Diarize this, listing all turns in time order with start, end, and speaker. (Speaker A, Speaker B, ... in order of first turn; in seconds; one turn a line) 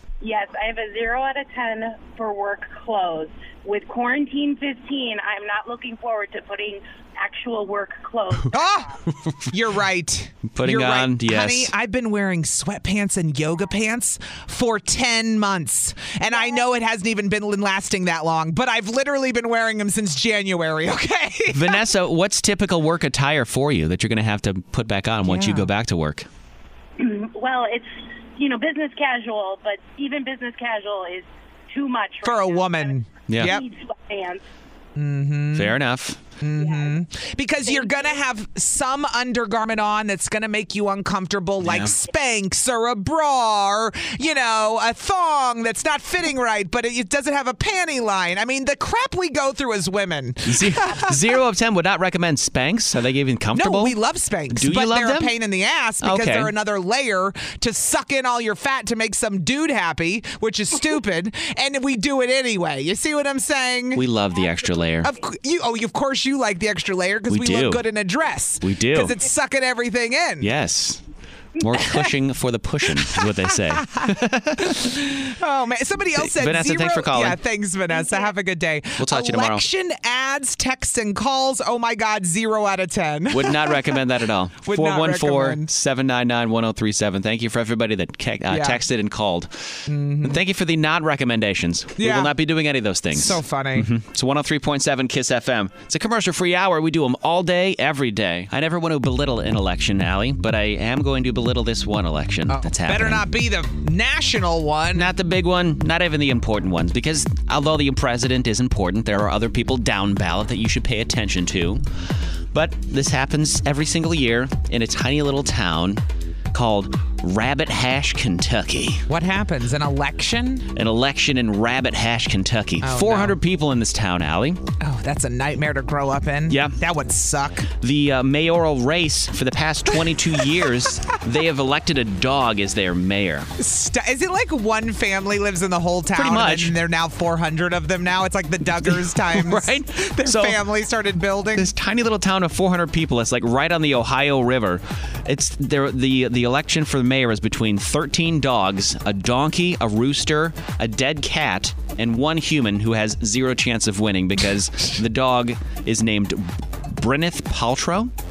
Speaker A: 0.2-8.9
Speaker B: 8.5-8.9
Speaker B: 9.5-21.8
Speaker C: 10.5-11.7
Speaker C: 21.5-26.3
Speaker B: 25.2-25.7
Speaker A: 27.0-34.4
Speaker B: 32.2-33.6
Speaker C: 33.3-33.6
Speaker B: 35.0-35.8
Speaker C: 35.5-36.2
Speaker B: 36.4-51.2
Speaker A: 36.5-36.9
Speaker A: 37.6-38.2
Speaker C: 41.6-41.9
Speaker C: 50.4-54.0
Speaker B: 53.5-64.0
Speaker C: 54.5-55.3
Speaker C: 56.0-56.5
Speaker C: 63.9-65.1
Speaker B: 65.0-70.5
Speaker C: 67.3-67.8
Speaker C: 68.6-69.2
Speaker C: 70.4-71.0
Speaker C: 71.6-74.9
Speaker B: 73.0-84.0
Speaker C: 76.1-77.4
Speaker C: 79.0-79.7
Speaker C: 83.3-103.3
Speaker B: 84.6-85.7
Speaker B: 88.5-88.8
Speaker B: 89.9-90.4
Speaker B: 92.0-92.3
Speaker B: 93.1-93.9
Speaker B: 102.5-105.1
Speaker C: 104.9-111.8
Speaker C: 112.5-119.0
Speaker B: 119.1-120.7
Speaker C: 120.7-124.6
Speaker B: 122.8-123.4
Speaker B: 124.8-127.7
Speaker C: 126.5-126.8
Speaker C: 127.7-133.5
Speaker B: 133.6-141.7
Speaker C: 136.1-136.8
Speaker C: 138.8-140.6
Speaker C: 141.5-158.1